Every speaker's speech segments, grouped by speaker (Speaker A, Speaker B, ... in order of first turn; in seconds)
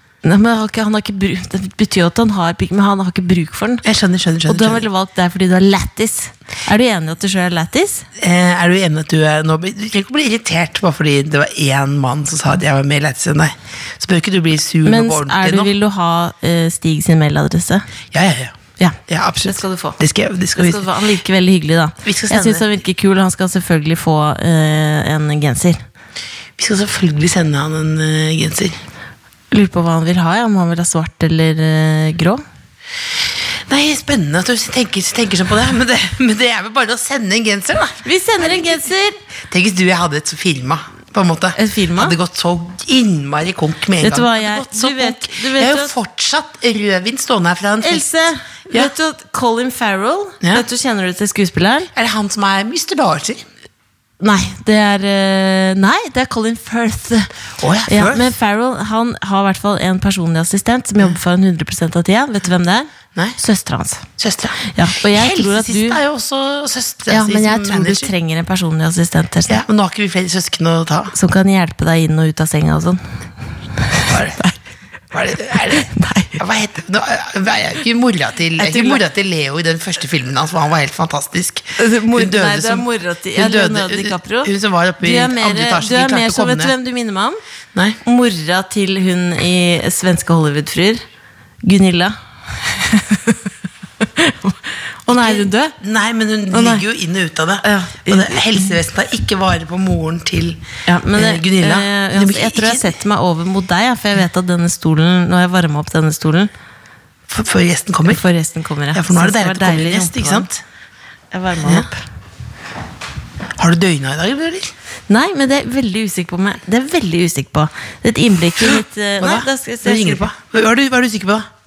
Speaker A: 0.2-3.8, 4.5-8.1, 14.8-17.9, 18.8-20.0, 20.6-25.8, 29.5-32.4, 38.0-39.2, 41.5-42.1, 44.0-45.9, 47.8-51.9, 54.2-57.3, 57.9-64.1, 64.7-66.0, 67.1-69.6, 71.1-73.0, 73.8-74.5, 75.6-76.4, 78.6-79.0, 81.8-87.4, 88.0-91.0, 91.6-93.4, 94.0-95.7, 96.5-96.8, 97.6-98.8, 100.9-106.5, 108.1-110.5, 111.3-112.0, 115.1-120.3
Speaker B: 3.8-4.9, 8.2-15.7, 18.1-20.9, 22.0-22.7, 26.6-28.8, 33.7-38.8, 39.5-48.0, 50.4-50.7, 52.0-53.4, 57.6-58.4, 64.2-68.1, 69.5-71.1, 74.1-74.5, 75.1-86.7, 87.7-88.0, 95.1-100.6, 101.1-103.0, 107.3-108.2, 108.9-110.6, 111.6-111.9, 113.6-114.7, 118.7-121.5